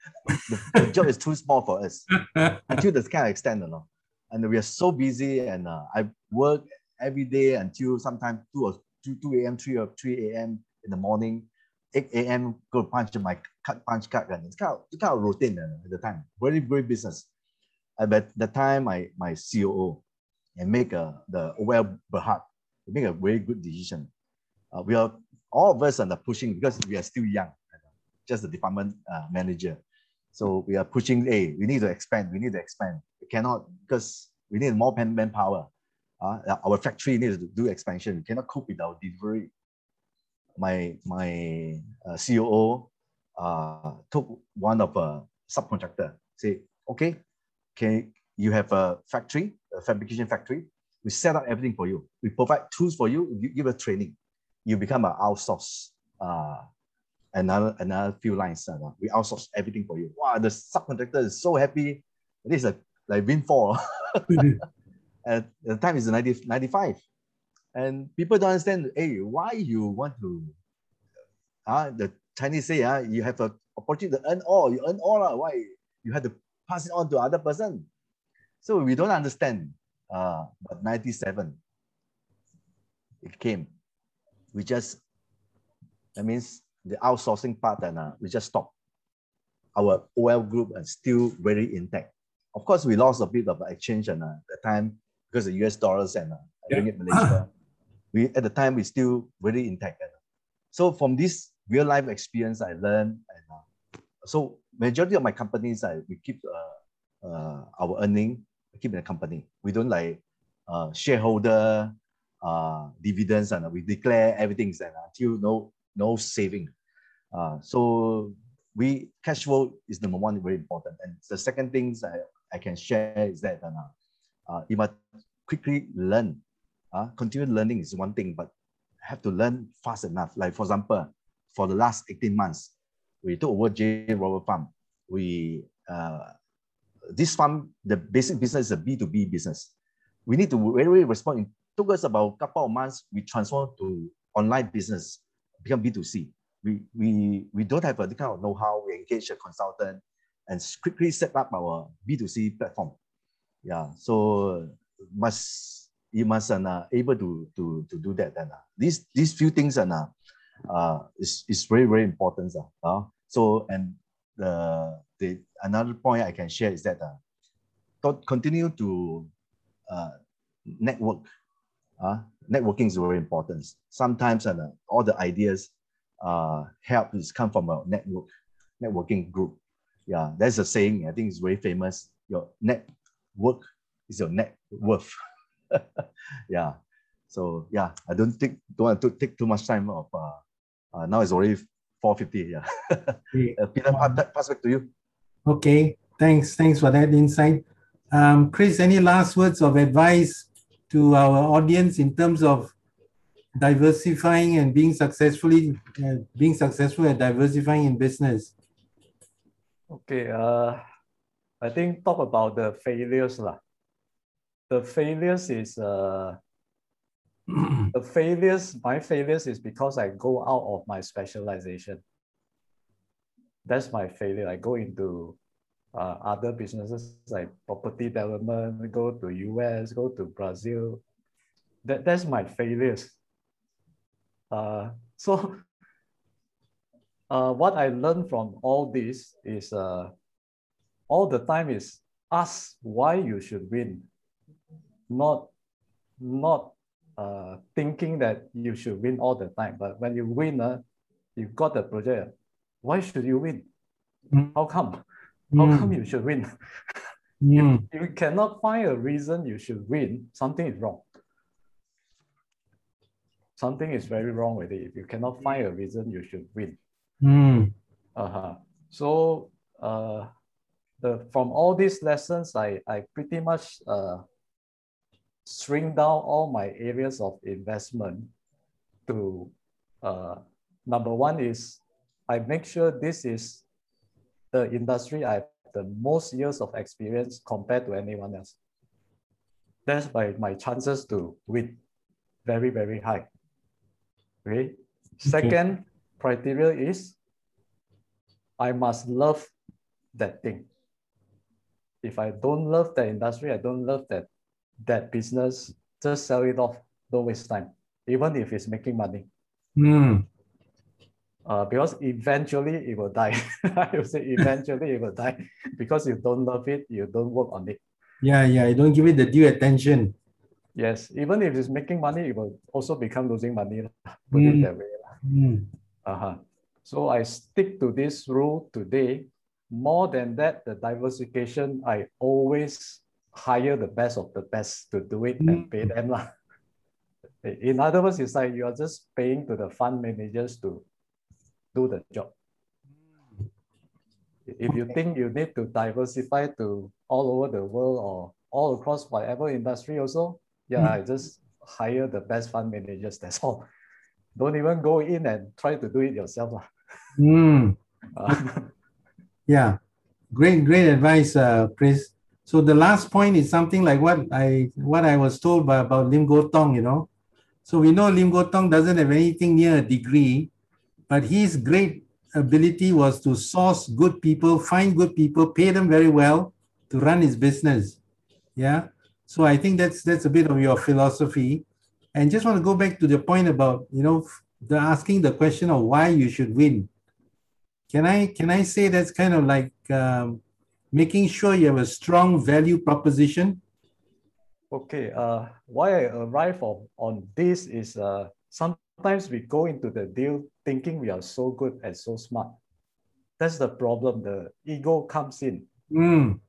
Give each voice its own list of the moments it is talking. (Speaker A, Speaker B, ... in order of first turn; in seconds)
Speaker A: 0.3-2.1, 2.7-17.3, 18.0-20.0, 20.6-24.1, 24.7-27.7, 28.2-29.8, 30.3-35.7, 36.2-39.5, 40.6-47.2, 47.8-56.6, 57.3-64.6, 65.2-67.0, 67.7-70.5, 71.7-77.8, 78.6-81.6, 83.2-83.7, 84.5-85.0, 86.2-88.7, 89.8-97.5, 98.1-100.1, 100.7-103.6, 104.2-116.7, 117.3-123.9, 124.5-126.4, 126.9-128.5, 129.0-132.7, 133.2-136.3, 137.1-139.7, 140.2-152.9, 153.6-160.1, 160.7-167.2, 168.0-169.3, 169.9-170.1, 170.7-171.2, 172.0-175.7, 176.2-178.3, 178.8-185.1, 185.7-186.8, 187.3-190.4, 190.9-194.9
Speaker B: 2.3-2.8, 96.7-97.4, 193.3-194.2, 195.4-202.7, 203.5-208.5, 255.5-255.9, 257.4-257.8, 267.2-267.7, 295.2-295.5, 309.8-310.2, 318.2-320.1, 324.3-324.7, 325.2-325.6, 335.4-335.8, 344.7-344.9, 357.1-358.4, 359.5-359.8, 360.3-367.1, 367.6-370.5, 371.1-378.0, 378.6-386.9, 387.9-390.4, 390.9-393.6, 405.9-406.4
Speaker C: 209.9-210.8, 211.6-213.6, 214.7-216.4, 217.9-222.0, 223.6-225.4, 225.9-231.0, 231.8-233.1, 234.5-235.6, 237.3-240.1, 241.1-244.1, 245.1-245.5, 246.2-250.8, 251.3-252.3, 252.8-253.6, 254.5-255.0, 255.5-257.0, 257.6-261.0, 263.6-266.8, 268.1-270.3, 271.0-274.2, 275.4-278.3, 279.1-283.6, 284.5-288.6, 289.9-291.8, 292.4-293.3, 294.4-297.1, 298.6-299.5, 300.1-300.7, 302.0-304.3, 304.9-309.3, 311.4-317.8, 320.7-325.1, 326.0-336.3, 337.4-340.8, 341.7-342.3, 344.5-353.6, 354.4-356.7, 358.1-358.7, 394.7-402.6, 403.4-405.7